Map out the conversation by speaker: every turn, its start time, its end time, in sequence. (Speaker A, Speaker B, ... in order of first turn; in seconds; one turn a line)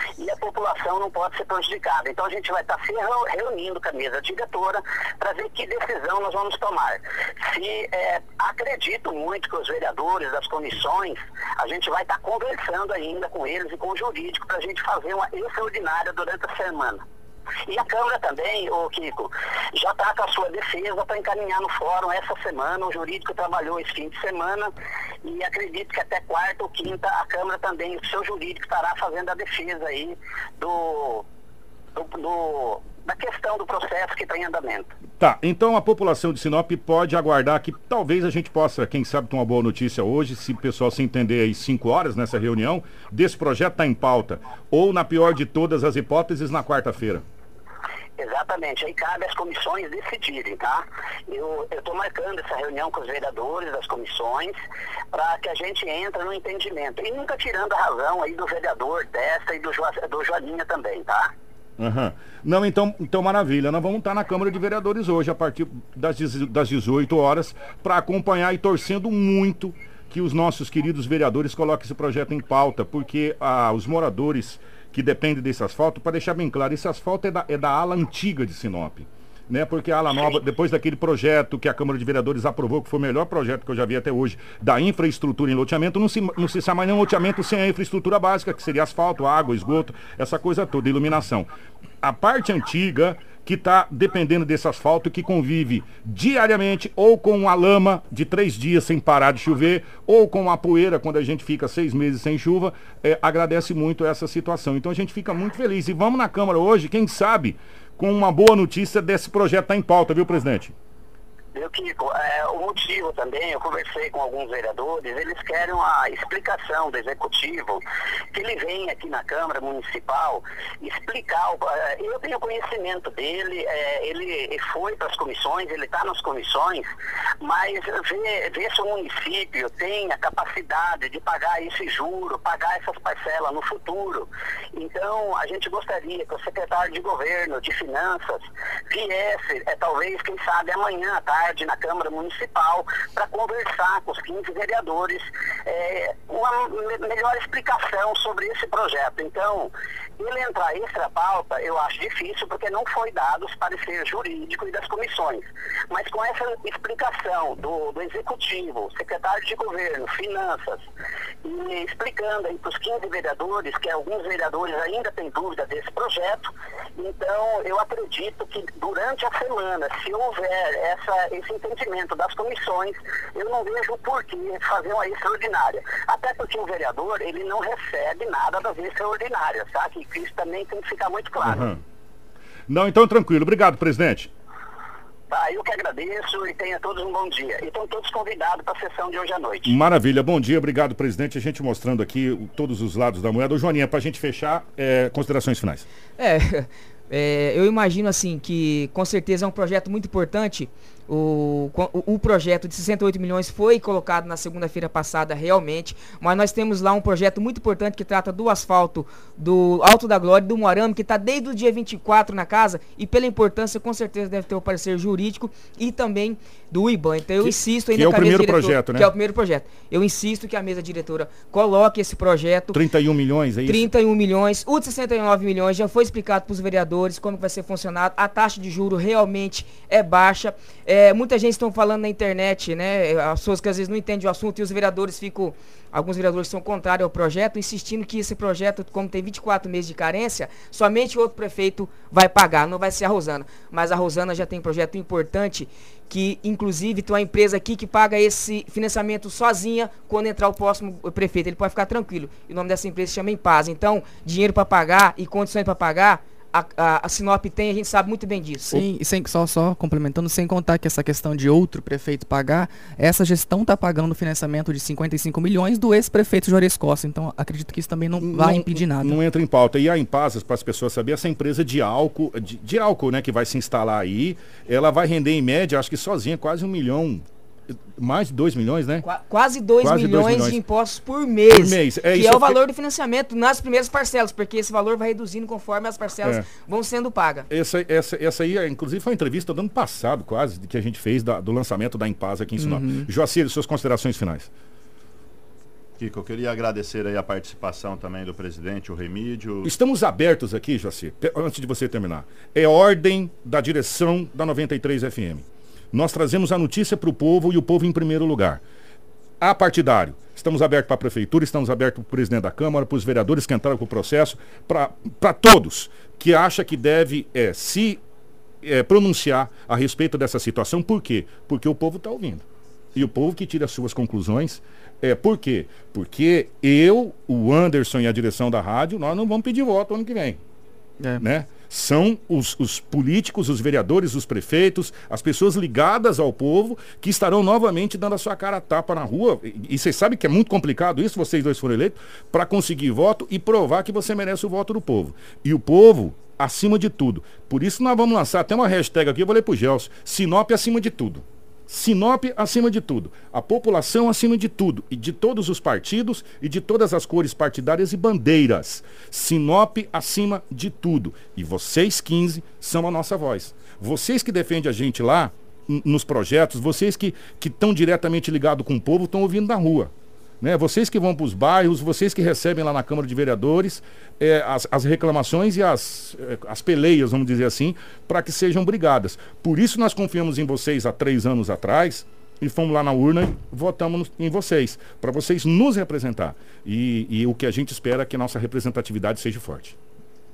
Speaker A: 0.2-17.0
Speaker A: 17.7-24.7
Speaker A: 25.2-31.2
Speaker A: 31.9-34.9
Speaker B: 35.2-47.2
Speaker A: 48.2-54.5
Speaker A: 55.1-61.3
Speaker B: 61.8-91.5
Speaker B: 92.0-110.7
Speaker A: 111.5-117.8
Speaker A: 118.3-126.9
Speaker A: 127.4-160.8
Speaker A: 161.4-181.7
Speaker B: 181.4-181.8
Speaker B: 182.7-184.3
Speaker A: 185.3-189.8
Speaker B: 189.7-195.8
Speaker C: 196.2-222.8
Speaker B: 217.4-219.1
Speaker B: 222.7-223.9
Speaker C: 223.7-258.9
Speaker D: 258.7-269.2
Speaker B: 268.2-277.2
Speaker B: 278.0-279.1
Speaker C: 279.0-287.5
Speaker B: 279.8-280.6
Speaker B: 281.5-282.6
Speaker B: 287.5-294.5
Speaker D: 292.6-293.1
Speaker E: 296.0-299.7
Speaker B: 299.6-308.6
Speaker B: 309.4-318.0
Speaker B: 318.6-330.4
Speaker B: 331.2-389.8